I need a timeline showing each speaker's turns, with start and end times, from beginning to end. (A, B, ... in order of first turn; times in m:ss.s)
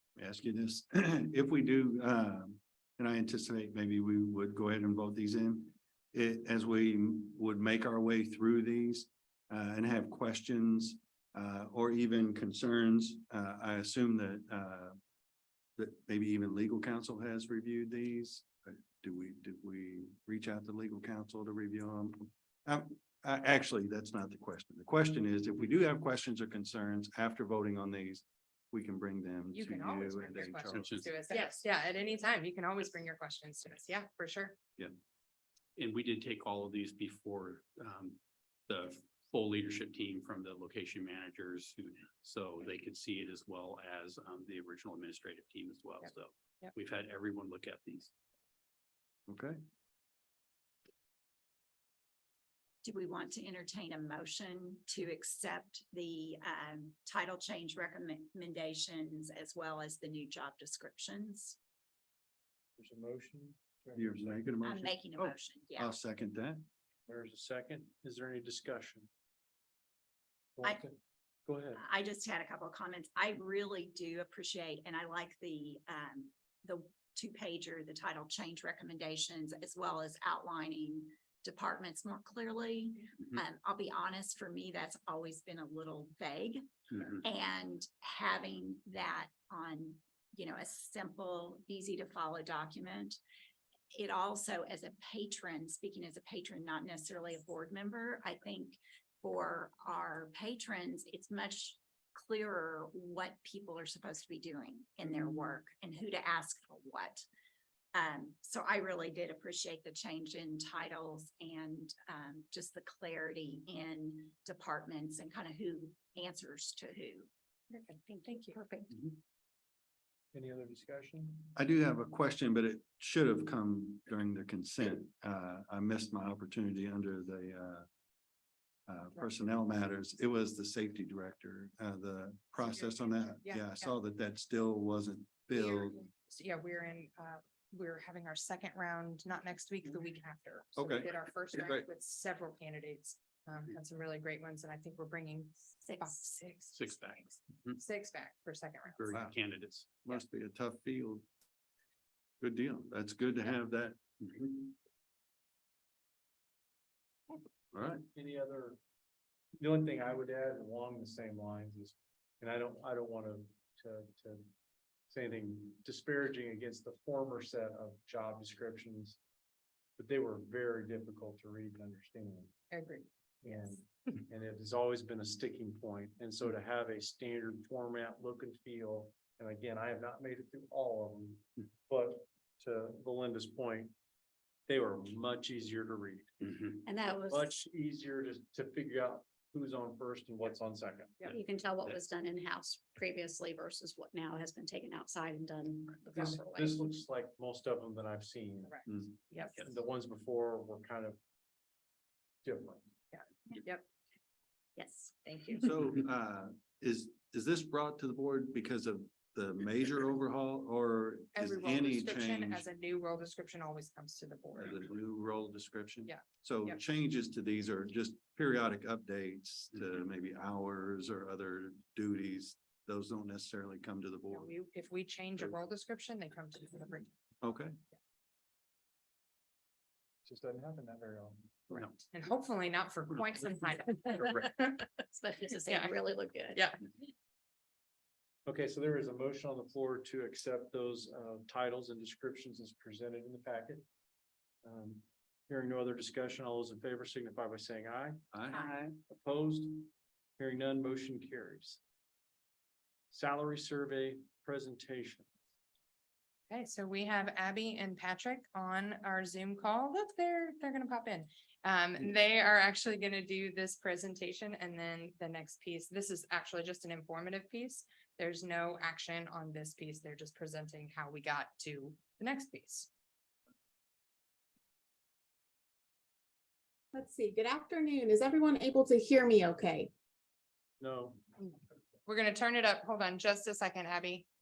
0:00.2-0:15.0 A
0:15.8-0:31.1 A
0:29.5-0:34.6 B
0:30.7-0:31.1 C
0:31.3-0:31.6 D
0:35.8-0:48.1 C
0:49.3-0:49.6 A
0:52.8-1:01.6 E
1:02.8-1:04.4 F
1:04.0-1:06.6 A
1:04.6-1:06.0 E
1:07.0-1:09.1 F
1:10.6-1:10.9 F
1:11.4-1:11.8 F
1:11.8-1:33.2 E
1:33.9-1:47.2 E
1:47.9-1:57.3 E
1:57.7-1:58.6 B
1:58.5-1:58.9 E
2:00.3-2:01.5 F
2:01.5-2:07.8 A
2:08.9-2:16.0 A
2:12.7-2:13.9 B
2:15.5-2:29.1 B
2:20.8-2:21.9 A
2:25.8-2:26.3 E
2:26.7-2:27.8 C
2:29.0-2:30.0 C
2:29.1-2:29.4 A
2:30.0-2:31.2 A
2:32.4-2:34.7 A
2:37.7-2:38.0 A
2:38.1-2:38.8 F
2:39.6-2:44.4 F
2:45.1-2:49.2 F
2:50.0-2:52.5 F
2:52.7-2:53.8 B
2:53.4-3:03.9 F
3:04.7-3:11.3 F
3:06.8-3:07.4 G
3:11.3-3:16.7 G
3:16.1-3:21.2 F
3:18.6-3:19.6 B
3:22.4-3:22.8 F
3:23.1-3:23.8 B
3:24.8-3:25.1 G
3:25.2-3:25.6 B
3:25.6-3:32.6 A
3:31.3-3:34.8 B
3:34.6-3:44.5 A
3:36.0-3:36.8 B
3:44.3-3:47.1 B
3:47.4-3:47.8 A
3:50.2-3:51.4 F
3:52.1-3:54.9 B
3:55.1-3:56.6 G
3:55.7-3:56.0 B
3:58.4-4:03.8 F
4:04.6-4:08.2 F
4:08.3-4:08.6 A
4:08.9-4:11.8 F
4:13.1-4:15.3 F
4:16.5-4:32.9 B
4:36.9-4:39.9 D
4:40.8-4:41.2 F
4:41.4-4:44.2 B